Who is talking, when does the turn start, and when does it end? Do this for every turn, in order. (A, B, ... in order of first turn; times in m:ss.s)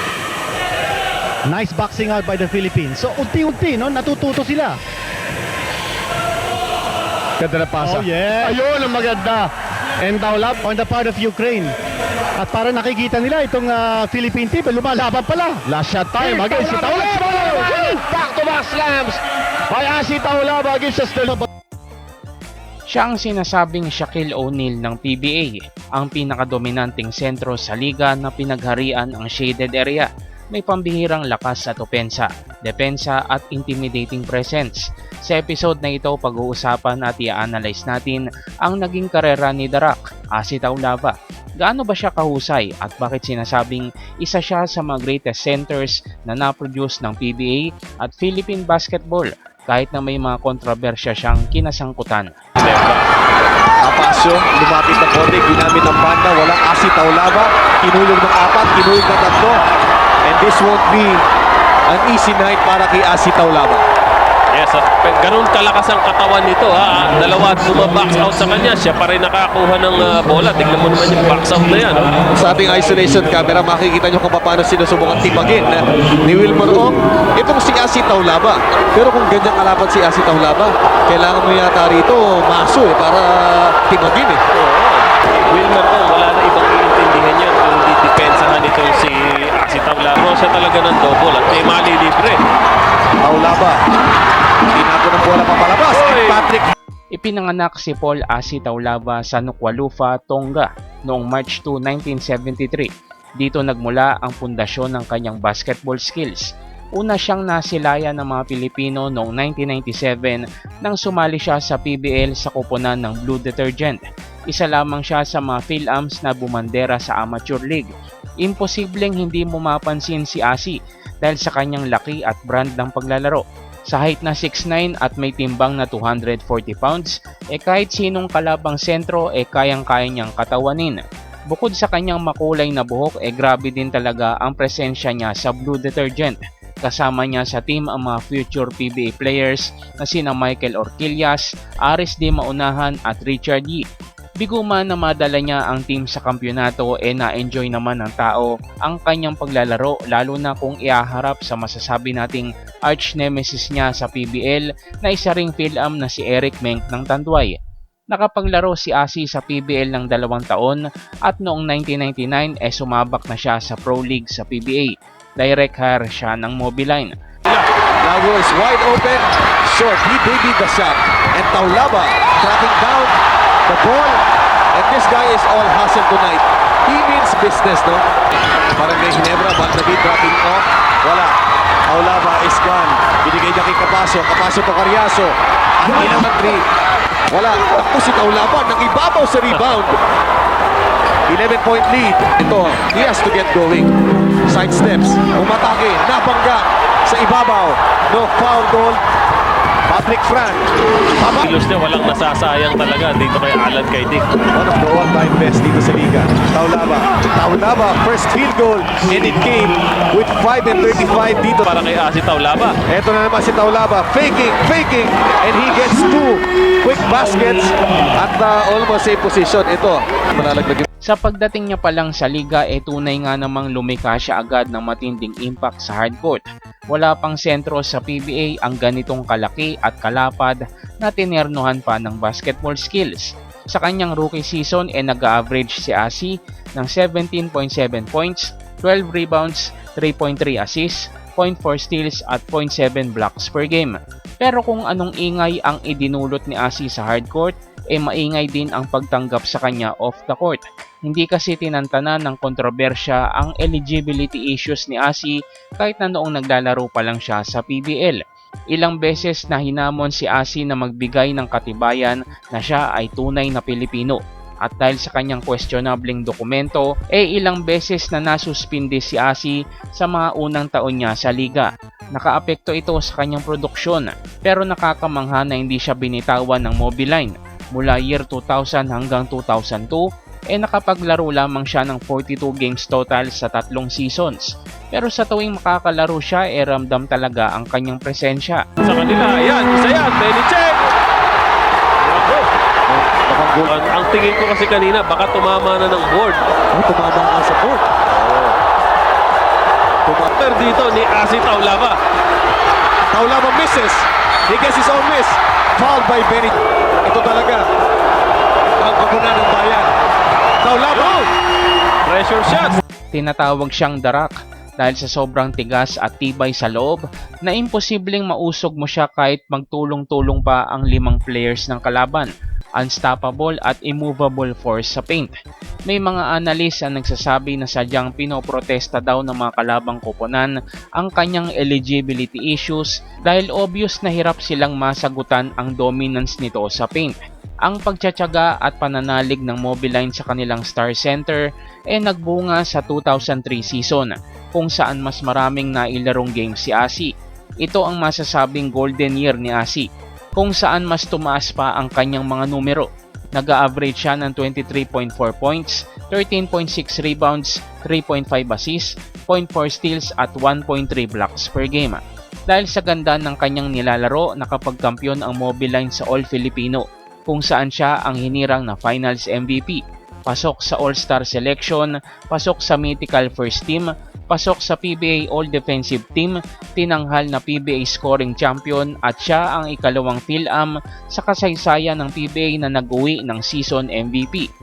0:01.5-0:04.8 A
0:07.4-0:08.6 A
0:07.8-0:09.3 B
0:09.1-0:09.4 A
0:10.1-0:11.7 A
0:12.4-0:17.1 A
0:15.7-0:19.2 B
0:19.7-0:21.4 B
0:22.9-0:52.3 C
0:52.6-0:52.9 D
0:53.8-0:59.6 E
1:00.2-1:01.2 E
1:01.9-1:03.8 E
1:04.5-1:12.2 D
1:12.3-1:24.4 E
1:24.5-1:32.4 D
1:33.2-1:33.8 E
1:34.7-1:36.7 E
1:35.9-1:36.4 D
1:37.1-1:57.9 C
1:58.4-2:23.8 C
2:24.4-2:37.6 C
2:38.1-2:47.1 C
2:48.0-2:53.1 E
2:53.7-2:54.2 E
2:54.7-2:58.0 E
2:58.8-3:01.3 E
3:01.9-3:06.6 E
3:07.3-3:09.9 E
3:11.3-3:13.9 E
3:14.5-3:19.0 E
3:19.9-3:20.7 E
3:21.2-3:21.4 E
3:21.4-3:24.2 D
3:24.5-3:31.7 E
3:31.6-3:32.7 D
3:32.9-3:40.8 E
3:41.1-4:18.2 C
4:18.7-4:48.6 C
4:48.8-4:50.8 D
4:52.1-4:52.5 D
4:52.9-4:53.9 E
4:53.6-4:56.4 D
4:56.7-4:57.8 E
5:00.0-5:00.3 E
5:00.4-5:02.0 D
5:03.1-5:07.6 E
5:08.8-5:09.9 E
5:10.6-5:11.3 E
5:12.0-5:12.8 D
5:13.1-5:25.4 C
5:25.9-5:47.1 C
5:47.6-6:24.5 C